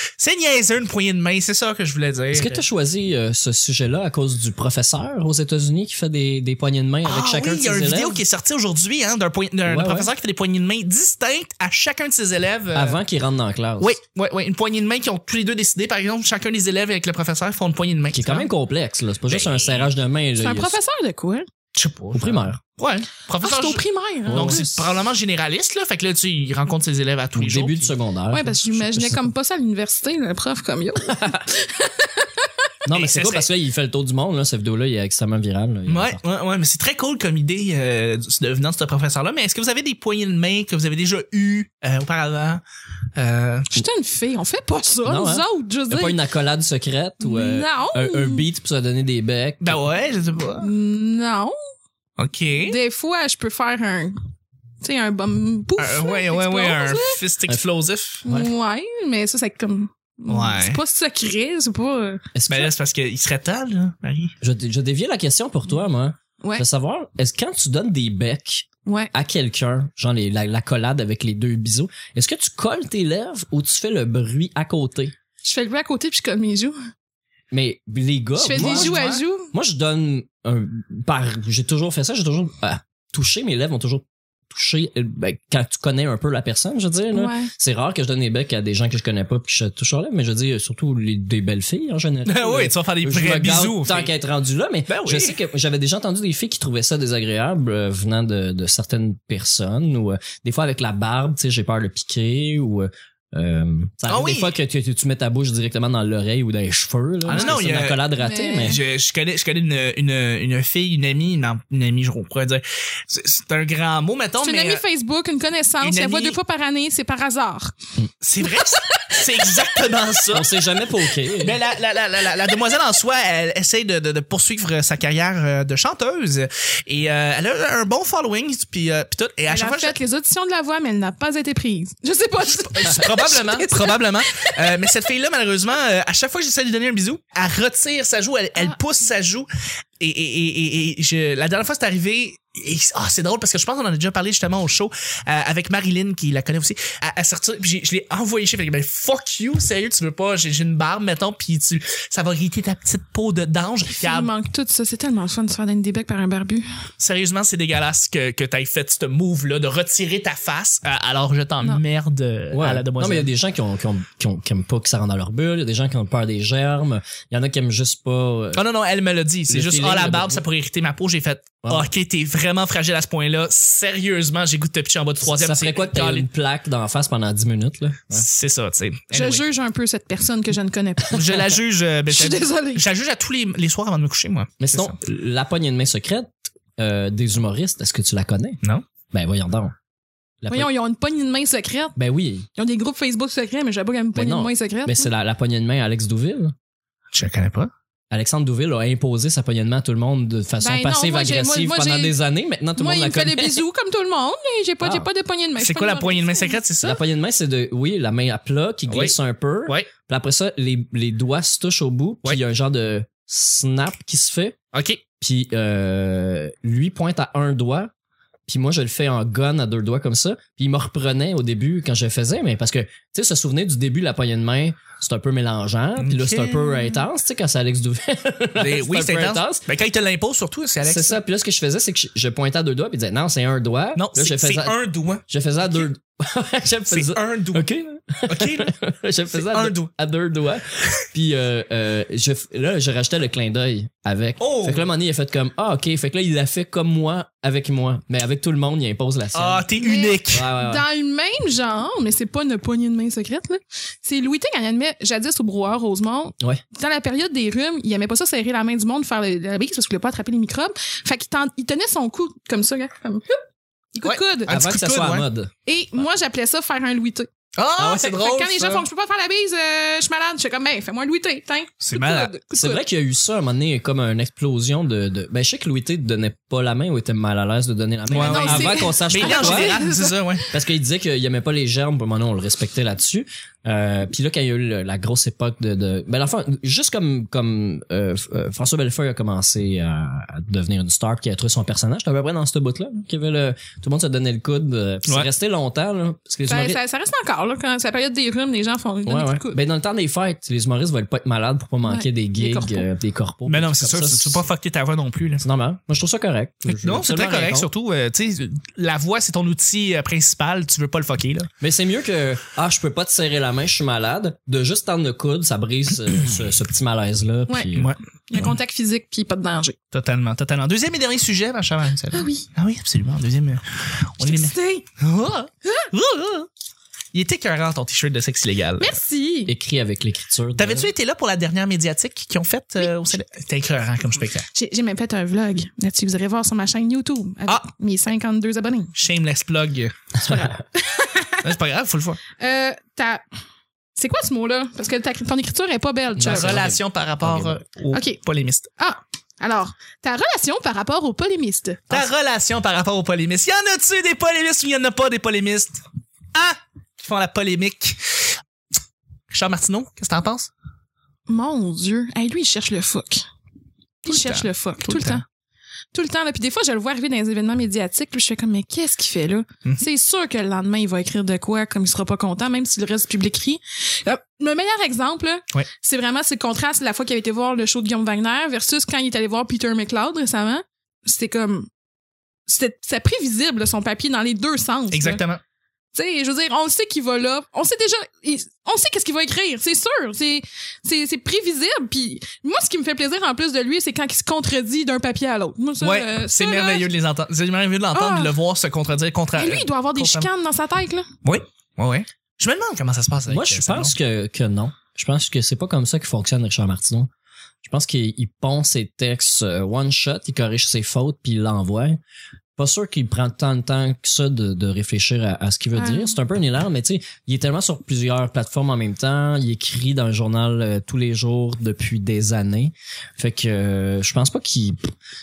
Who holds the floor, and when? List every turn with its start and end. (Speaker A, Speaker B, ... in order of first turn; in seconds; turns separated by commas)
Speaker A: 0.2-2.6, Speaker B: 2.3-8.2, Speaker A: 7.0-13.0, Speaker B: 9.7-10.1, Speaker B: 12.7-13.9, Speaker A: 13.8-18.5, Speaker B: 18.1-20.8, Speaker A: 19.3-19.9, Speaker C: 20.4-21.5, Speaker A: 21.7-27.9, Speaker B: 22.1-22.6, Speaker C: 23.4-24.8, Speaker B: 24.3-24.6, Speaker B: 27.4-29.3, Speaker C: 28.3-32.5, Speaker B: 31.1-31.4, Speaker B: 32.8-36.2, Speaker A: 32.9-33.5, Speaker A: 35.9-42.6, Speaker A: 43.1-43.7, Speaker C: 43.7-46.2, Speaker B: 45.0-49.8, Speaker C: 47.2-48.4, Speaker A: 49.6-50.7, Speaker C: 50.6-51.5, Speaker A: 52.2-52.8, Speaker C: 52.6-54.2, Speaker C: 54.8-57.2, Speaker A: 55.8-58.2, Speaker C: 58.2-62.3, Speaker B: 58.2-58.5, Speaker A: 60.3-60.8, Speaker B: 62.3-62.7, Speaker A: 62.5-64.3, Speaker B: 64.4-75.1, Speaker C: 68.8-69.1, Speaker C: 75.4-76.8, Speaker B: 77.5-78.9, Speaker C: 78.4-79.5, Speaker A: 78.5-79.2, Speaker B: 79.5-108.8, Speaker C: 87.1-87.5, Speaker A: 92.2-94.1, Speaker A: 94.9-95.3, Speaker A: 104.1-104.5, Speaker A: 107.2-108.0, Speaker C: 108.2-108.8, Speaker A: 108.6-114.8, Speaker C: 114.4-117.7, Speaker A: 115.8-116.3, Speaker A: 118.2-120.5, Speaker C: 118.4-119.6, Speaker B: 120.3-121.6, Speaker A: 121.4-130.0, Speaker C: 129.5-134.7, Speaker A: 132.8-139.5, Speaker A: 140.0-154.3, Speaker C: 153.9-156.7, Speaker A: 157.0-163.3, Speaker B: 162.5-168.6, Speaker A: 168.5-176.3, Speaker B: 169.5-170.4, Speaker B: 175.2-178.2, Speaker A: 178.1-179.4, Speaker C: 179.1-181.5, Speaker A: 181.1-184.9, Speaker C: 182.1-182.8, Speaker B: 184.6-188.6, Speaker B: 189.1-189.7, Speaker B: 190.4-190.7, Speaker C: 190.5-191.9, Speaker B: 191.9-192.5, Speaker C: 192.6-195.1, Speaker B: 194.1-196.5, Speaker A: 197.1-197.7, Speaker B: 198.1-203.6, Speaker C: 200.6-202.1, Speaker C: 202.8-206.6, Speaker B: 204.8-205.1, Speaker A: 205.6-207.0, Speaker B: 206.8-214.6, Speaker A: 208.9-209.1, Speaker A: 214.7-215.0, Speaker B: 215.2-217.9, Speaker B: 218.5-229.6, Speaker A: 226.0-226.9, Speaker A: 228.6-231.2, Speaker B: 230.8-234.8, Speaker A: 233.9-235.2, Speaker B: 235.3-249.7, Speaker A: 236.9-237.6, Speaker A: 238.3-238.7, Speaker A: 239.3-239.9, Speaker A: 244.4-244.8, Speaker A: 249.3-250.5, Speaker C: 249.8-263.4, Speaker B: 250.3-250.8, Speaker C: 263.9-264.5, Speaker A: 264.0-265.2, Speaker B: 264.5-265.5, Speaker C: 265.6-272.8, Speaker A: 267.6-268.9, Speaker A: 271.8-272.3, Speaker B: 272.5-279.8, Speaker A: 278.1-280.4, Speaker C: 278.1-280.4, Speaker B: 280.5-296.8, Speaker C: 296.5-299.6, Speaker B: 299.1-304.4, Speaker C: 301.8-302.9, Speaker A: 303.5-305.4, Speaker B: 305.4-307.7, Speaker A: 306.7-311.5, Speaker B: 311.6-317.9, Speaker A: 317.8-318.5, Speaker C: 318.3-319.8, Speaker A: 319.9-326.5, Speaker C: 322.1-322.4, Speaker C: 324.2-324.9, Speaker A: 327.1-328.9, Speaker C: 328.8-329.5, Speaker B: 329.4-330.9, Speaker A: 330.6-334.5, Speaker C: 334.5-338.9, Speaker A: 338.9-339.9, Speaker C: 340.2-341.4, Speaker A: 341.4-342.2, Speaker C: 342.4-343.2, Speaker C: 343.9-346.6, Speaker B: 346.1-347.6, Speaker A: 346.3-348.7, Speaker C: 347.9-348.2, Speaker C: 348.8-352.1, Speaker A: 351.9-355.8, Speaker A: 356.3-358.0, Speaker A: 359.3-360.5, Speaker C: 361.3-363.2, Speaker C: 364.0-365.2, Speaker A: 364.1-365.2, Speaker C: 365.9-381.7, Speaker C: 382.5-385.2, Speaker A: 384.9-385.4, Speaker C: 385.9-396.9, Speaker A: 395.8-400.3, Speaker C: 397.9-398.3, Speaker C: 399.4-401.1, Speaker A: 401.2-403.9, Speaker B: 403.3-407.1, Speaker B: 407.6-412.0, Speaker B: 412.6-424.9, Speaker C: 415.7-416.1